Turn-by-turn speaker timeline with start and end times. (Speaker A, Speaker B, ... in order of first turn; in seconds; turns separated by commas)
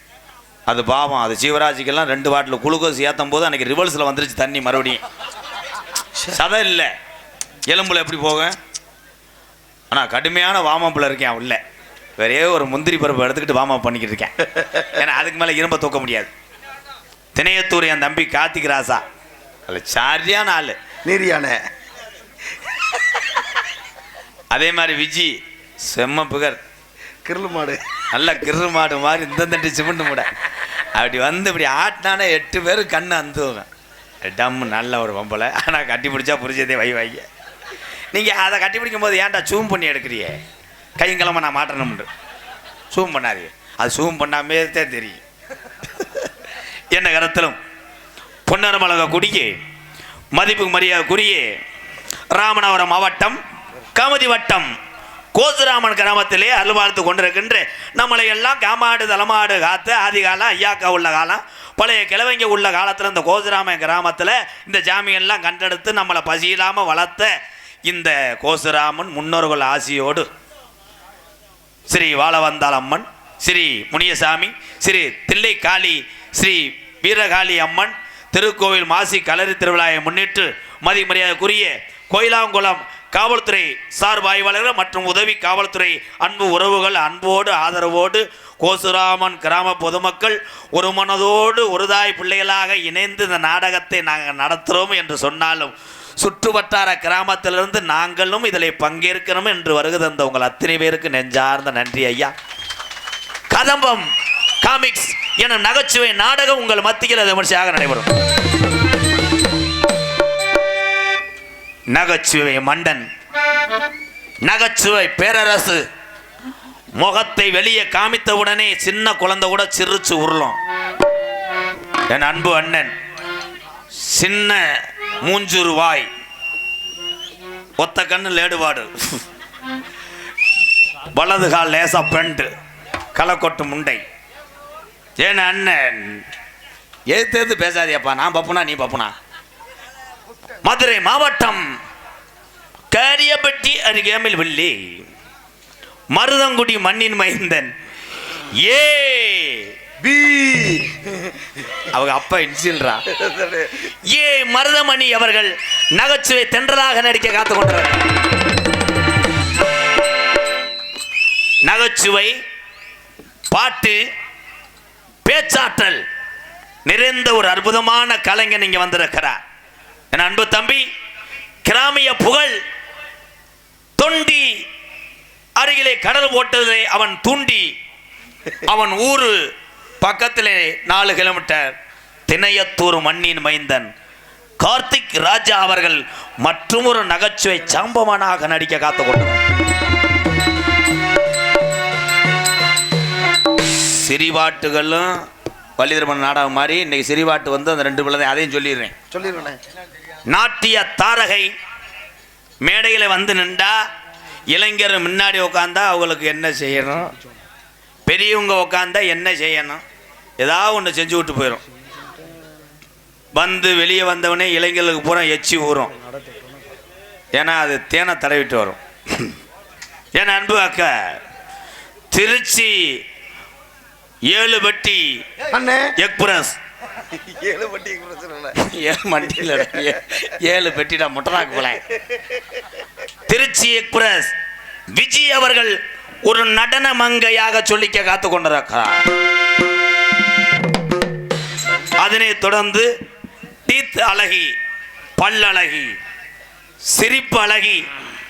Speaker A: 0.7-5.0, Speaker A: 6.2-6.9, Speaker A: 7.7-8.6, Speaker A: 9.9-11.6, Speaker A: 12.2-16.3, Speaker A: 17.3-19.0, Speaker A: 19.7-20.8, Speaker B: 21.0-21.6, Speaker B: 22.8-23.1, Speaker A: 24.5-26.6, Speaker B: 27.2-27.8, Speaker A: 28.1-33.7, Speaker A: 34.2-37.2, Speaker A: 38.1-40.4, Speaker A: 41.0-42.1, Speaker A: 42.9-45.2, Speaker A: 46.9-47.6, Speaker A: 48.5-49.5, Speaker A: 50.3-51.6, Speaker A: 52.3-53.4, Speaker A: 53.9-54.7, Speaker A: 55.3-67.3, Speaker A: 67.8-70.3, Speaker A: 71.9-102.3, Speaker A: 103.5-104.1, Speaker A: 104.6-108.1, Speaker A: 111.9-113.0, Speaker A: 114.4-115.8, Speaker A: 117.0-120.6, Speaker A: 122.1-122.9, Speaker A: 124.0-126.1, Speaker A: 127.8-129.2, Speaker A: 131.1-132.5, Speaker A: 133.1-134.0, Speaker A: 135.2-136.2, Speaker A: 137.1-139.1, Speaker A: 140.6-141.7, Speaker A: 142.9-145.0, Speaker A: 146.1-147.7, Speaker A: 148.6-149.7, Speaker B: 150.0-151.7, Speaker A: 151.9-153.0, Speaker B: 153.1-153.8, Speaker A: 153.9-158.1, Speaker A: 161.7-162.4, Speaker A: 163.5-164.0, Speaker A: 165.2-166.0, Speaker A: 166.8-169.4, Speaker A: 170.1-170.8, Speaker A: 171.6-172.6, Speaker A: 174.0-174.7, Speaker A: 175.6-177.7, Speaker A: 178.5-179.5, Speaker A: 180.0-181.7, Speaker A: 182.3-183.9, Speaker A: 184.6-189.4, Speaker A: 193.8-195.2, Speaker A: 195.8-198.9, Speaker B: 199.1-199.6, Speaker A: 200.3-201.5, Speaker A: 202.6-203.8, Speaker A: 204.5-207.1, Speaker A: 208.1-209.8, Speaker A: 210.4-211.6, Speaker A: 213.3-215.9, Speaker B: 216.2-216.5, Speaker A: 217.3-219.3, Speaker A: 220.1-221.2, Speaker A: 222.1-223.0, Speaker A: 224.3-225.2, Speaker B: 225.4-225.9, Speaker A: 226.0-226.6, Speaker B: 227.1-228.6, Speaker A: 228.6-231.8, Speaker A: 233.3-234.3, Speaker A: 234.9-239.1, Speaker A: 242.0-242.9, Speaker A: 243.7-244.5, Speaker A: 245.2-245.9, Speaker A: 246.9-247.8